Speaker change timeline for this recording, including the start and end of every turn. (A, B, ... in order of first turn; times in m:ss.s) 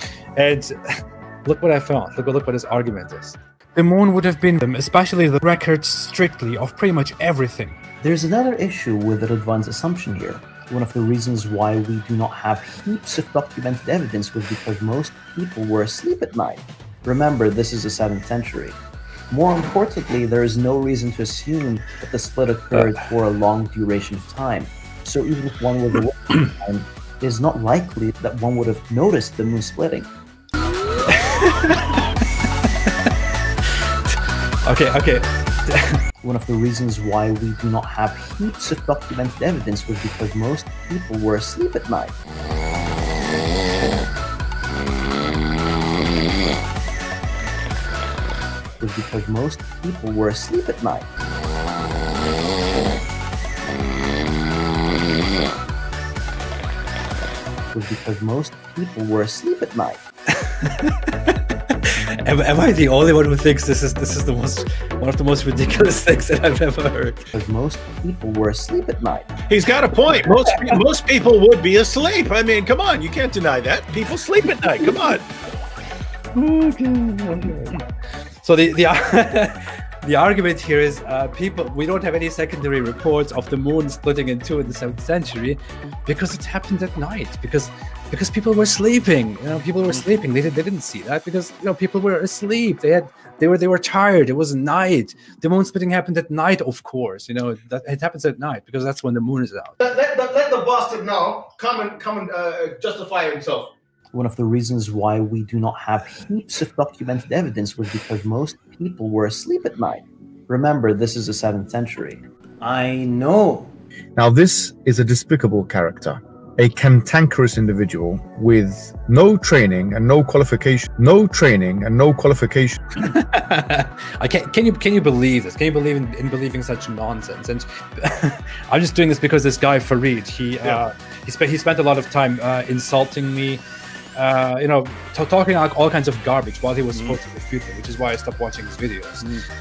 0:00.4-0:00.8 A
0:01.4-0:07.8 A
0:08.0-0:18.8 B
0:19.3-0:30.1 B
0:31.1-0:32.0 A
0:34.6-0:36.0 A
0:36.2-0:42.1 B
0:48.8-0:51.1 B
0:57.7-1:00.0 B
1:00.4-1:07.3 A
1:07.3-1:09.3 B
1:09.5-1:15.2 C
1:16.3-1:17.8 A
1:18.4-1:39.8 A
1:39.8-1:43.7 D
1:44.1-1:53.7 B
1:54.2-2:02.8 E
2:03.0-2:13.6 A
2:14.1-2:19.2 A